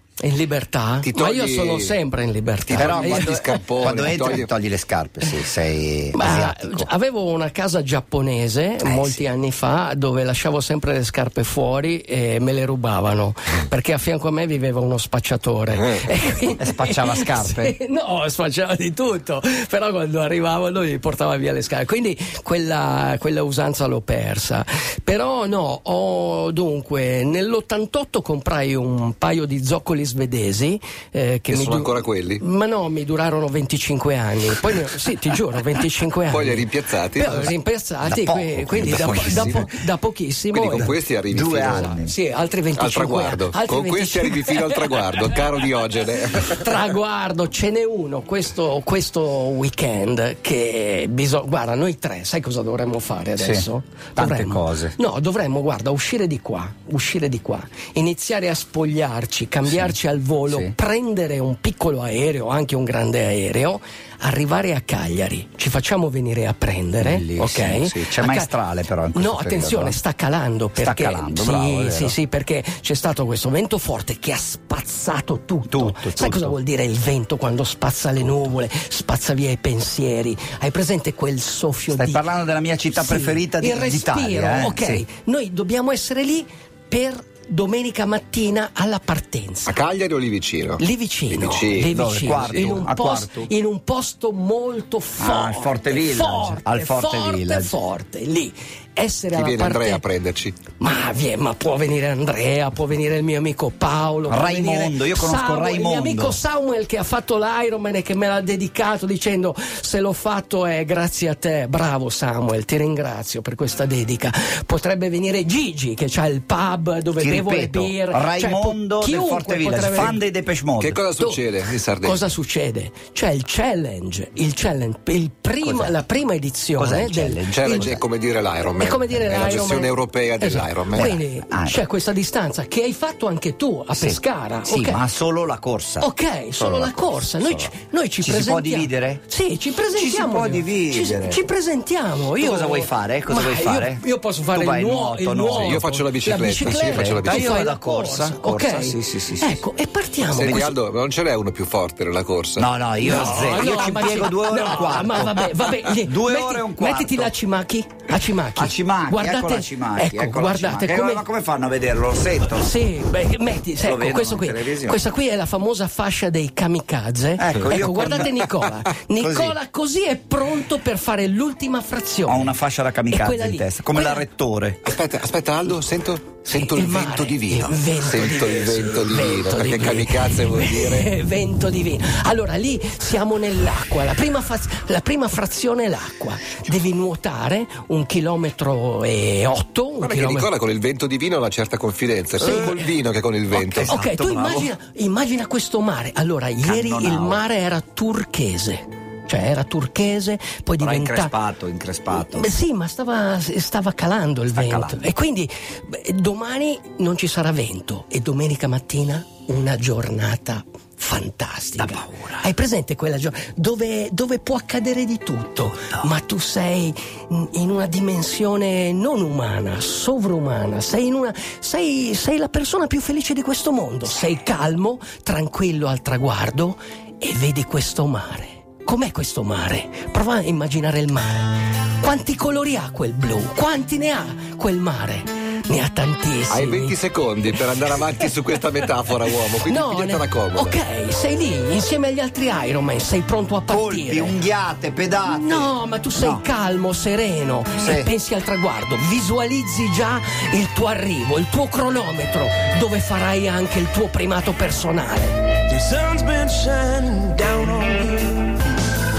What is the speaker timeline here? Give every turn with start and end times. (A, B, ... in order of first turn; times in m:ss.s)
0:00.2-0:03.6 A
0:01.0-0:02.0 B
0:02.7-0:04.5 B
0:02.8-0:06.9 C
0:06.1-0:40.9 A
0:08.8-0:09.3 C
0:16.6-0:17.8 C
0:31.5-0:32.4 B
0:36.3-0:37.5 B
0:38.0-0:39.7 C
0:38.7-0:39.7 B
0:40.5-0:42.0 B
0:40.8-0:42.2 C
0:41.7-0:45.4 A
0:42.8-0:46.7 B
0:46.4-1:08.5 A
0:53.4-0:55.0 C
0:59.7-0:59.9 C
1:00.5-1:00.8 C
1:07.0-1:10.0 C
1:09.1-1:22.3 A
1:10.8-1:12.2 C
1:15.7-1:16.6 C
1:21.9-1:25.0 C
1:22.9-1:29.8 A
1:29.7-1:32.8 B
1:30.8-1:40.0 A
1:31.9-1:33.5 C
1:35.2-1:37.7 C
1:39.3-1:40.6 B
1:40.8-2:00.2 A
1:44.3-1:46.4 C
1:57.2-2:01.0 C
2:00.8-2:02.3 B
2:01.2-2:08.0 A
2:05.6-2:06.0 C
2:06.8-2:08.0 C
2:07.5-2:11.1 B
2:08.8-2:15.0 A
2:10.9-2:11.8 C
2:13.9-2:19.2 C
2:16.0-2:30.7 A
2:19.9-2:21.5 C
2:22.4-2:25.8 C
2:25.6-2:27.6 B
2:26.6-2:29.6 C
2:30.3-2:32.7 B
2:30.4-2:30.7 C
2:32.6-2:37.3 C
2:33.0-2:41.2 A
2:33.3-2:33.8 B
2:38.6-2:42.7 C
2:42.5-2:52.6 A
2:43.8-2:45.1 C
2:47.4-2:48.5 C
2:47.6-2:47.9 B
2:49.2-2:49.6 C
2:52.2-2:54.8 C
2:53.1-2:54.2 A
2:54.8-3:01.1 B
2:56.4-3:10.5 A
3:10.0-3:14.0 B
3:12.4-3:12.9 A
3:13.6-3:14.7 C
3:13.8-3:21.4 A
3:16.6-3:17.4 C
3:20.8-3:22.5 C
3:22.1-3:57.0 A
3:24.5-3:25.1 C
3:31.8-3:32.4 C
3:56.5-4:00.8 B
3:59.6-4:04.4 A
4:03.7-4:06.4 C
4:05.2-4:15.4 A
4:07.8-4:08.1 C
4:15.7-4:18.5 D